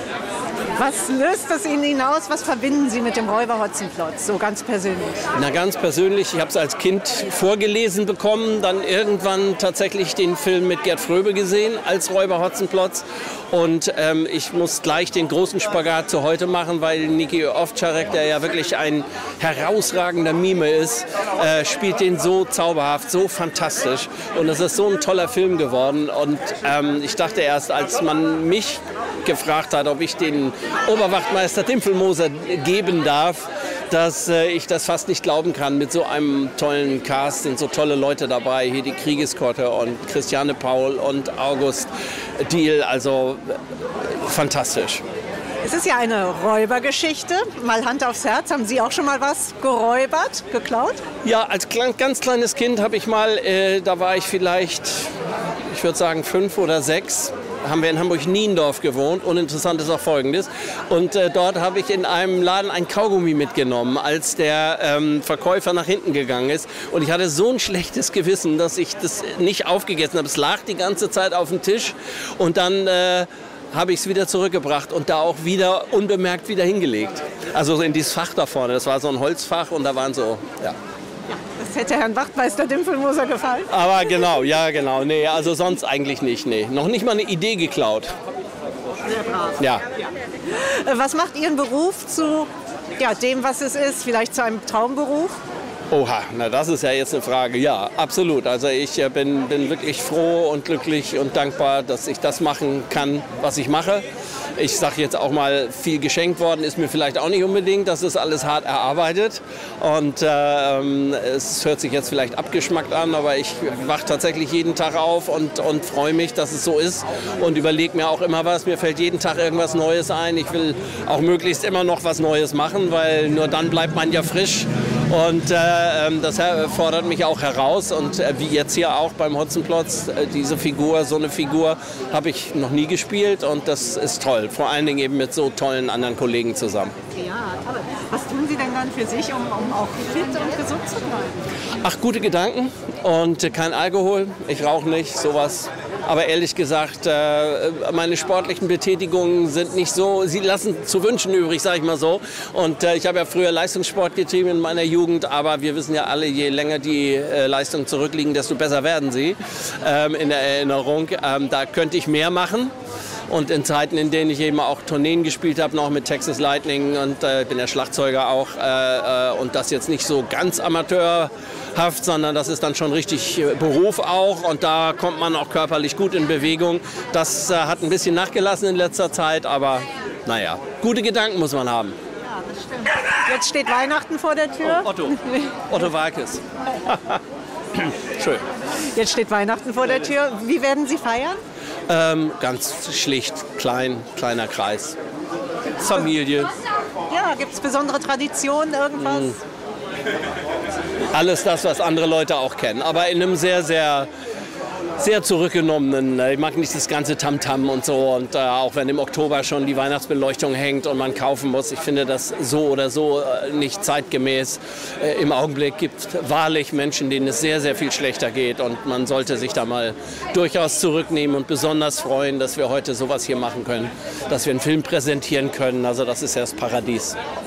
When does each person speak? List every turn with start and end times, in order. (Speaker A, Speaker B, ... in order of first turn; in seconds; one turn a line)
Speaker A: 0.8-5.2
Speaker B: 5.3-45.0
Speaker A: 45.6-51.0
Speaker B: 51.2-55.1
Speaker B: 55.7-80.8
Speaker A: 81.3-83.8
Speaker B: 83.7-88.1
Speaker A: 89.1-95.4
Speaker B: 95.9-104.1
Speaker B: 104.6-136.9
Speaker A: 137.1-141.4
Speaker B: 141.8-162.7
Speaker B: 163.3-182.0
Speaker A: 182.5-185.5
Speaker B: 184.6-187.2
Speaker B: 187.7-188.4
Speaker A: 188.9-191.4
Speaker B: 191.9-195.0
Speaker B: 195.8-196.5
Speaker A: 197.1-199.4
Speaker B: 201.1-204.1
Speaker B: 205.0-227.2